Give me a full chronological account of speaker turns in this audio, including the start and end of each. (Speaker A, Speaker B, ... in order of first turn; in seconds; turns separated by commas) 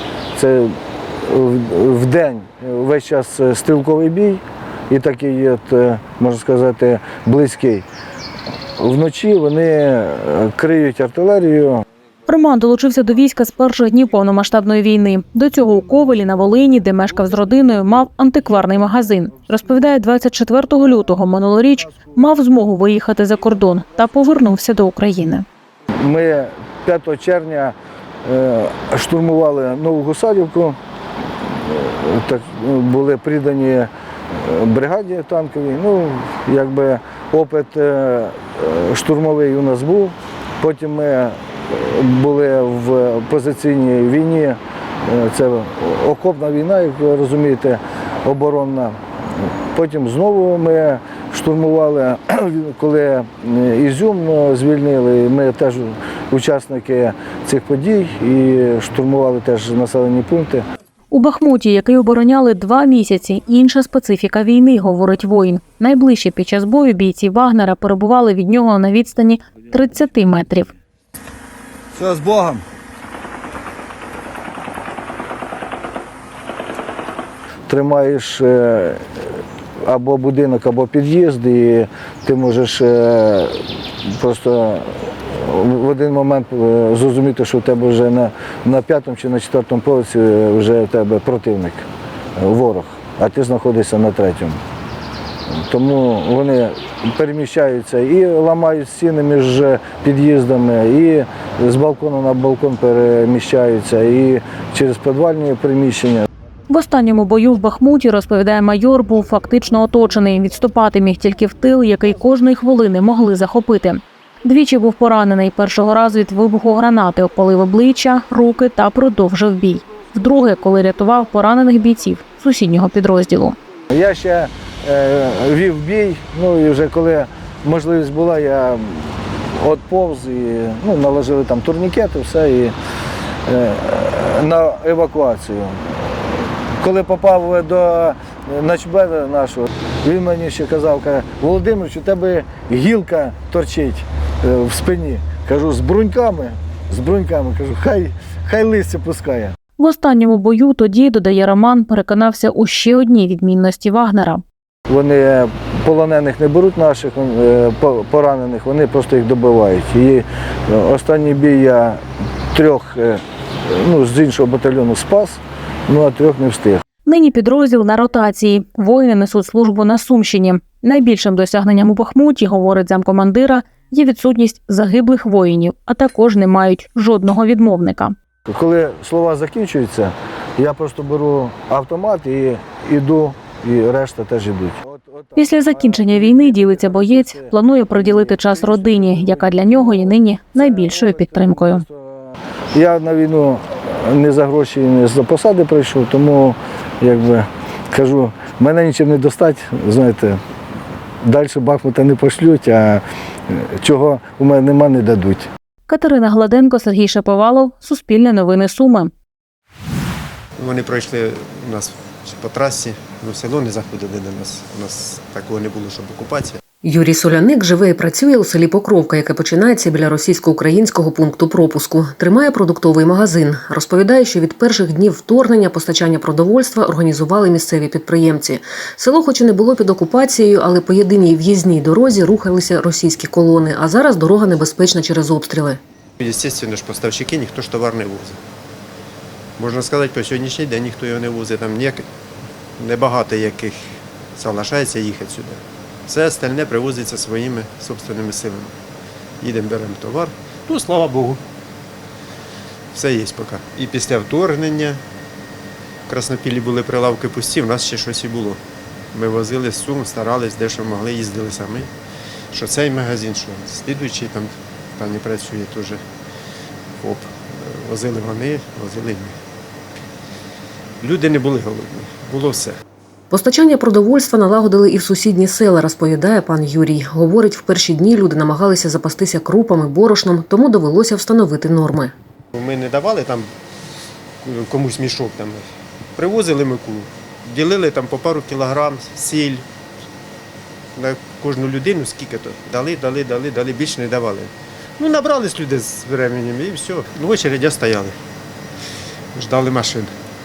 Speaker A: 0.4-7.9, Speaker A: 8.8-11.8, Speaker B: 12.3-25.5, Speaker A: 26.0-27.8, Speaker A: 28.3-30.8, Speaker A: 31.5-60.6, Speaker B: 61.1-70.7, Speaker A: 72.0-72.6, Speaker A: 77.7-79.1, Speaker A: 79.8-91.8, Speaker A: 92.4-94.6, Speaker A: 95.5-106.3, Speaker B: 106.7-123.6, Speaker A: 123.9-132.8, Speaker A: 133.5-136.1, Speaker A: 136.8-149.6, Speaker B: 149.8-154.4, Speaker A: 154.9-162.0, Speaker A: 162.5-166.8, Speaker B: 167.1-178.2, Speaker A: 178.5-200.4, Speaker B: 185.4-191.8, Speaker A: 201.3-205.5, Speaker B: 205.9-209.1, Speaker C: 210.6-216.6, Speaker D: 216.8-235.8, Speaker C: 236.2-238.4, Speaker C: 239.6-242.1, Speaker C: 242.8-243.8, Speaker C: 244.4-248.7, Speaker C: 249.4-251.4, Speaker C: 252.9-255.0, Speaker C: 256.1-258.6, Speaker C: 259.1-261.9, Speaker C: 262.5-266.0, Speaker C: 267.0-269.4, Speaker C: 271.0-272.8, Speaker D: 273.3-282.1, Speaker C: 282.6-283.5, Speaker C: 284.4-285.6, Speaker C: 286.2-289.6, Speaker C: 291.0-298.2, Speaker C: 299.4-300.1